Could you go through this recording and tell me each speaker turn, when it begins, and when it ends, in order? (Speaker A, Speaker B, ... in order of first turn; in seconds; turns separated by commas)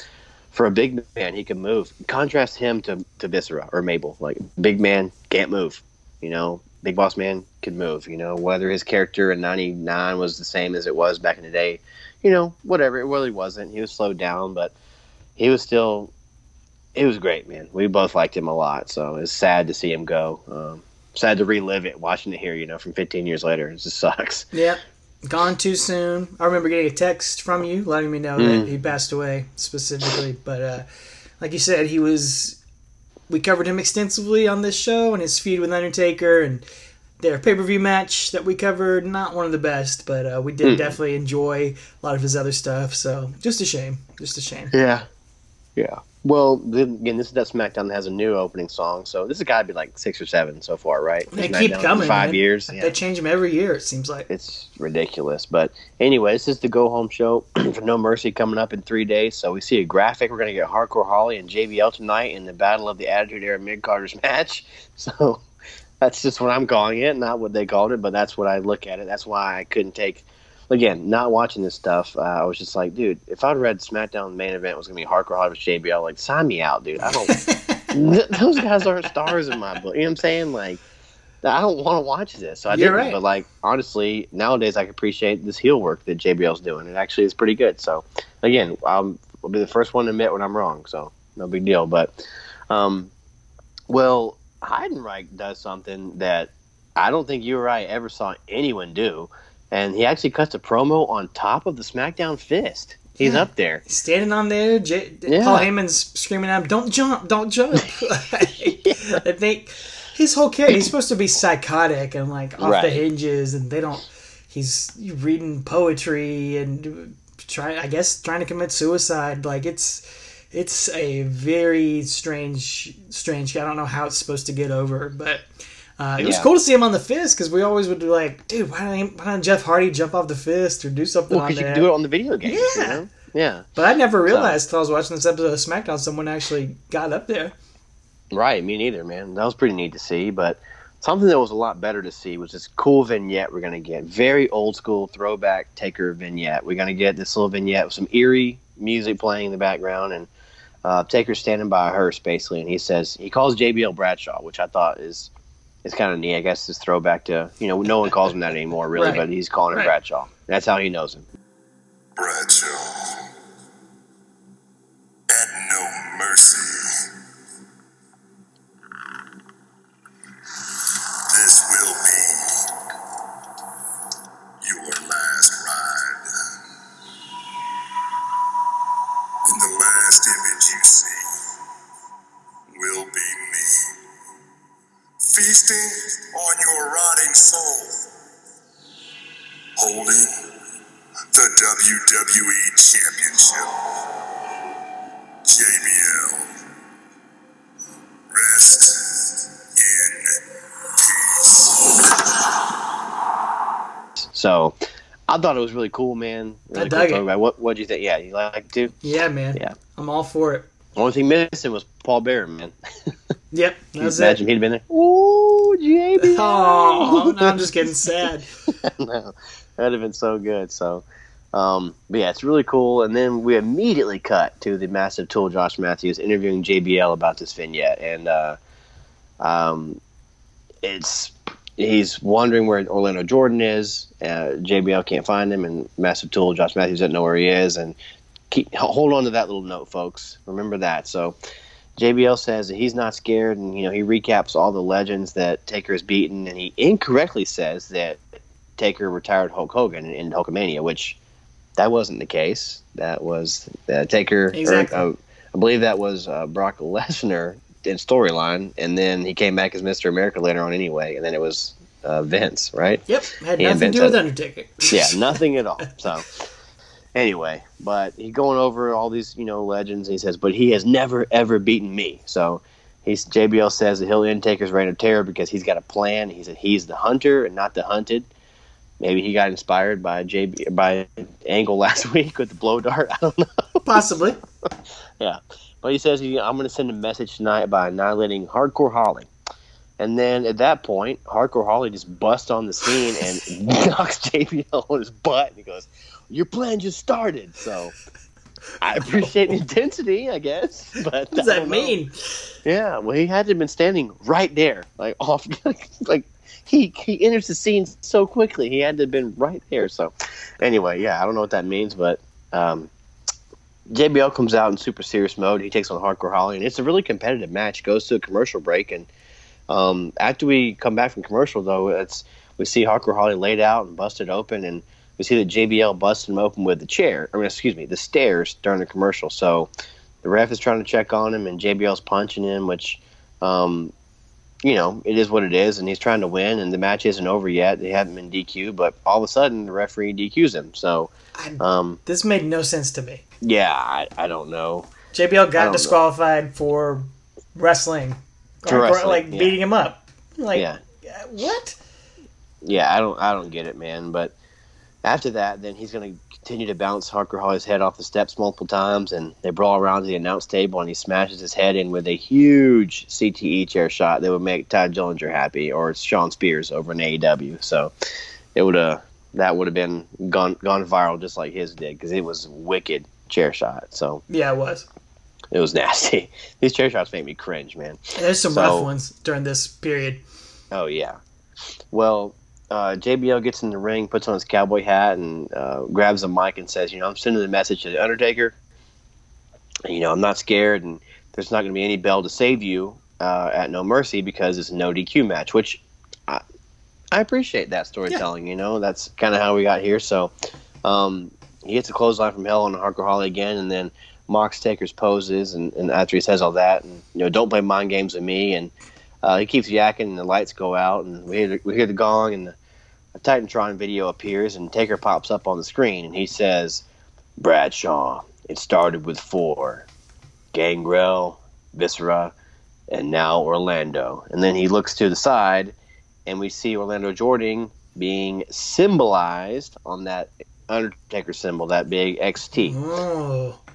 Speaker A: 0.5-14.7, Speaker A: 15.3-16.1, Speaker A: 16.9-24.5, Speaker B: 24.5-30.8, Speaker A: 28.4-28.7, Speaker B: 31.4-32.6, Speaker B: 33.3-36.6, Speaker B: 37.2-44.7, Speaker A: 40.6-41.0, Speaker A: 44.7-45.0, Speaker A: 45.8-52.9, Speaker B: 51.3-54.3, Speaker A: 54.3-65.4, Speaker A: 66.0-77.4, Speaker B: 77.3-77.9, Speaker A: 77.9-80.8, Speaker A: 81.4-93.1, Speaker B: 82.7-83.2, Speaker A: 93.9-103.8, Speaker B: 103.2-125.4, Speaker A: 105.3-105.7, Speaker A: 108.8-109.2, Speaker A: 112.6-113.0, Speaker B: 126.0-131.9, Speaker A: 126.2-126.5, Speaker A: 131.3-133.7, Speaker B: 132.4-133.0, Speaker B: 133.8-137.5, Speaker A: 134.2-134.6, Speaker A: 138.3-150.3, Speaker A: 150.8-155.3, Speaker A: 155.8-161.2, Speaker B: 158.9-159.9, Speaker C: 162.2-163.2, Speaker C: 165.3-166.9, Speaker C: 170.9-172.4, Speaker C: 174.6-176.2, Speaker C: 179.5-181.2, Speaker C: 182.7-183.8, Speaker C: 185.3-188.0, Speaker C: 189.8-190.3, Speaker C: 191.3-193.7, Speaker C: 195.5-196.4, Speaker C: 198.3-200.4, Speaker C: 201.0-202.3, Speaker A: 204.2-204.8, Speaker A: 205.3-208.9, Speaker B: 206.7-207.2, Speaker B: 209.0-210.7, Speaker A: 210.9-213.1, Speaker B: 213.5-214.4, Speaker A: 214.0-217.7, Speaker B: 216.2-218.5, Speaker A: 218.7-228.6, Speaker A: 229.4-230.0, Speaker A: 230.8-237.9, Speaker A: 238.5-241.3, Speaker A: 242.0-248.2, Speaker A: 248.8-251.2, Speaker A: 251.8-263.0, Speaker B: 254.5-255.0, Speaker B: 263.1-265.4, Speaker A: 263.6-264.2, Speaker A: 264.9-266.3, Speaker A: 267.1-278.3, Speaker A: 279.0-283.9, Speaker B: 283.8-284.4, Speaker A: 285.2-289.3, Speaker A: 290.0-297.9, Speaker A: 298.8-301.9, Speaker B: 301.3-302.1, Speaker A: 302.6-312.9, Speaker A: 313.9-319.1, Speaker A: 319.7-329.7, Speaker A: 330.2-333.9, Speaker A: 334.6-342.0, Speaker B: 341.4-343.2, Speaker A: 343.4-344.9, Speaker B: 345.1-351.8, Speaker A: 345.6-345.9, Speaker A: 348.6-349.5, Speaker A: 352.6-354.3, Speaker A: 355.0-367.9, Speaker A: 368.5-374.2, Speaker B: 374.3-374.9, Speaker A: 375.5-378.9, Speaker B: 378.1-380.2, Speaker A: 380.7-381.2, Speaker A: 381.9-388.5, Speaker A: 389.9-396.4, Speaker A: 397.1-400.3, Speaker A: 400.8-412.6, Speaker A: 413.2-416.8, Speaker A: 417.4-419.9, Speaker A: 420.5-422.3, Speaker A: 422.9-425.7, Speaker A: 426.2-432.8, Speaker B: 432.5-433.6